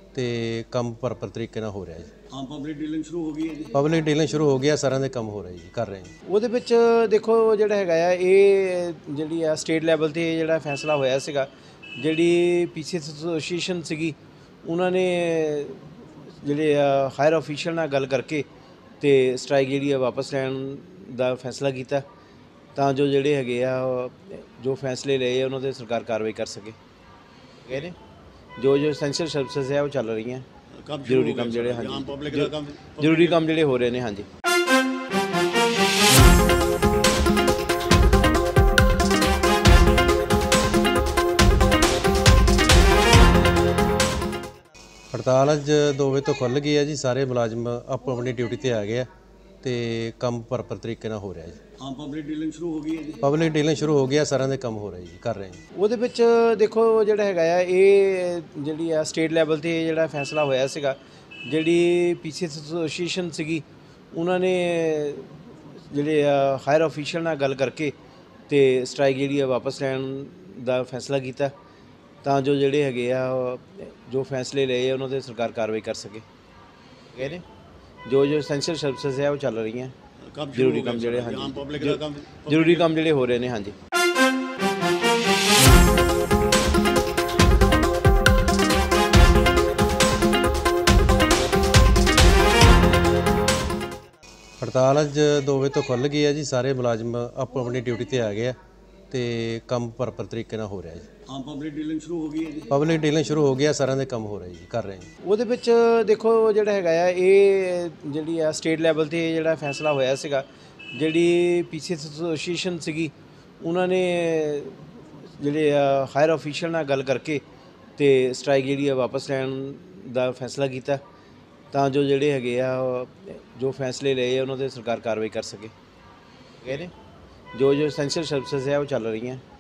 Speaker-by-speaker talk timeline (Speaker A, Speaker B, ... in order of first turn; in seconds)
Speaker A: 0.1-2.1, 3.7-6.1, 45.1-49.1, 49.6-51.6, 53.2-55.6, 94.6-98.6, 99.1-101.1, 102.7-105.1
Speaker B: 2.3-3.7, 30.8-33.4, 51.8-53.2, 80.3-82.9, 101.3-102.7
Speaker C: 6.3-18.5, 19.0-22.1, 22.8-26.8, 27.7-28.0, 28.6-30.5, 31.1-34.3, 55.7-68.0, 68.5-71.5, 72.2-76.2, 77.2-77.5, 78.0-80.0, 80.5-83.8, 105.2-117.4, 118.0-121.0, 121.7-125.7, 126.6-126.9, 127.5-129.4